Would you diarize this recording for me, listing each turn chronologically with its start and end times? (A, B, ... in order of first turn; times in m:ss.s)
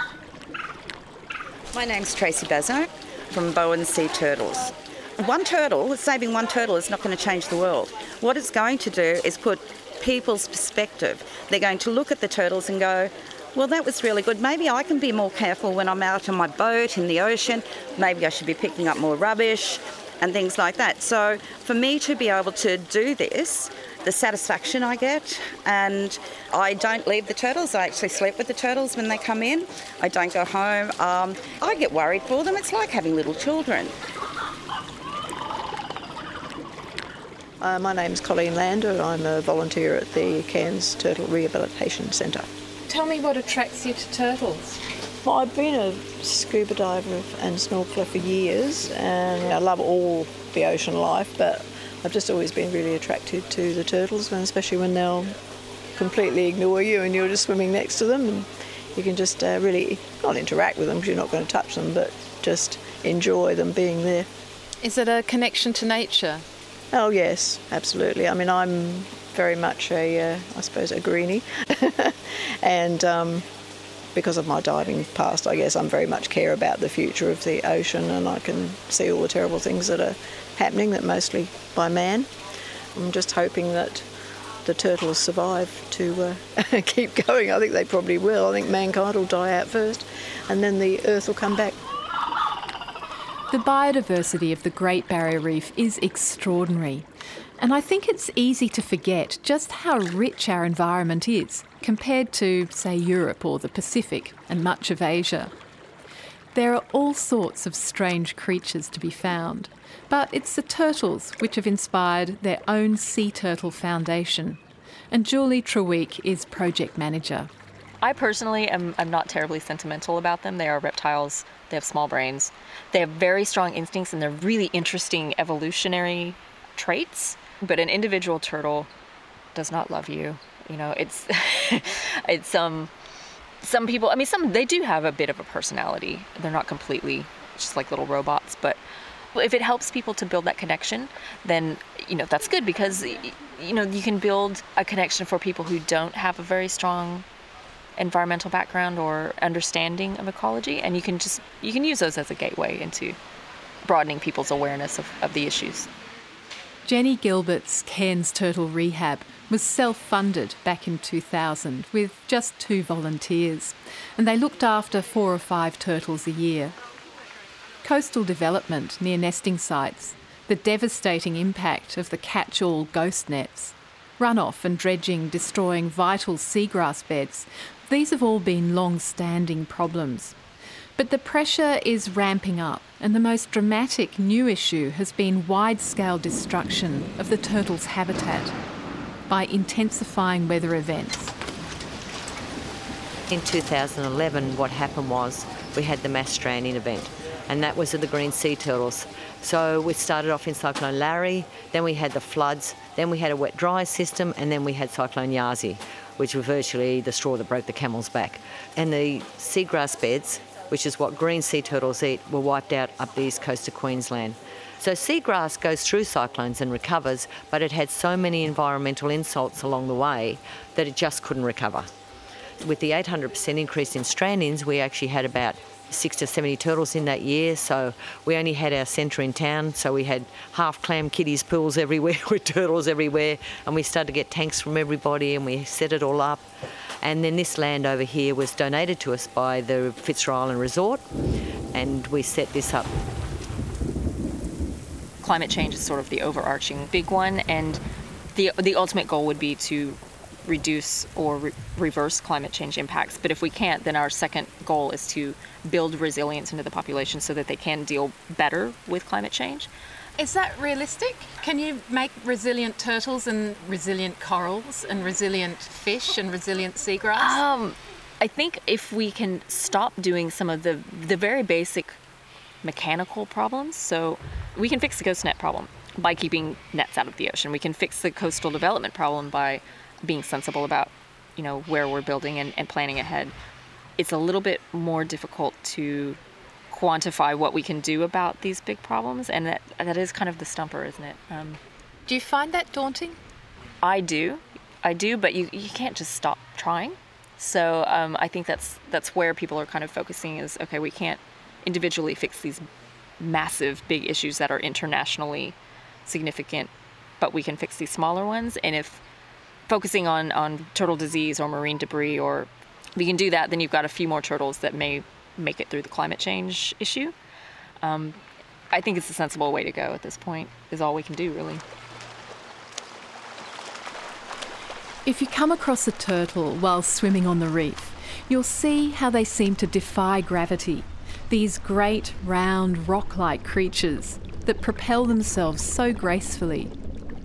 0:01.7-0:33.9 A
0:37.6-0:42.5 B
0:42.9-0:44.8 C
0:45.2-0:55.3 B
0:56.0-1:04.3 B
1:04.8-1:06.4 C
1:06.9-1:13.4 B
1:14.1-1:22.3 B
1:22.9-1:24.0 B
1:24.6-1:31.7 B
1:33.5-1:37.0 C
1:37.6-1:45.5 C
1:46.5-1:54.6 C
1:55.1-1:57.5 C
1:58.0-2:08.9 D
2:09.5-2:12.9 D
2:13.6-2:18.8 D
2:19.3-2:27.2 D
2:28.0-2:33.2 D
2:33.8-2:35.9 D
2:36.8-2:46.7 C
2:47.8-3:00.3 C
3:01.0-3:08.5 C
3:09.3-3:11.3 C
3:13.3-3:41.9 E
3:42.6-3:56.4 E
3:57.0-4:01.0 E
4:01.7-4:02.9 E
4:05.2-4:07.8 D
4:08.3-4:19.7 D
4:20.2-4:27.4 C
4:27.2-4:32.0 D
4:32.6-4:43.3 D
4:44.0-4:46.2 D
4:46.7-4:51.6 D
4:52.1-4:53.2 C
4:53.8-5:02.6 D
5:03.2-5:09.0 D
5:09.7-5:17.1 D
5:17.8-5:18.2 D
5:18.7-5:21.6 D
5:25.0-5:36.7 C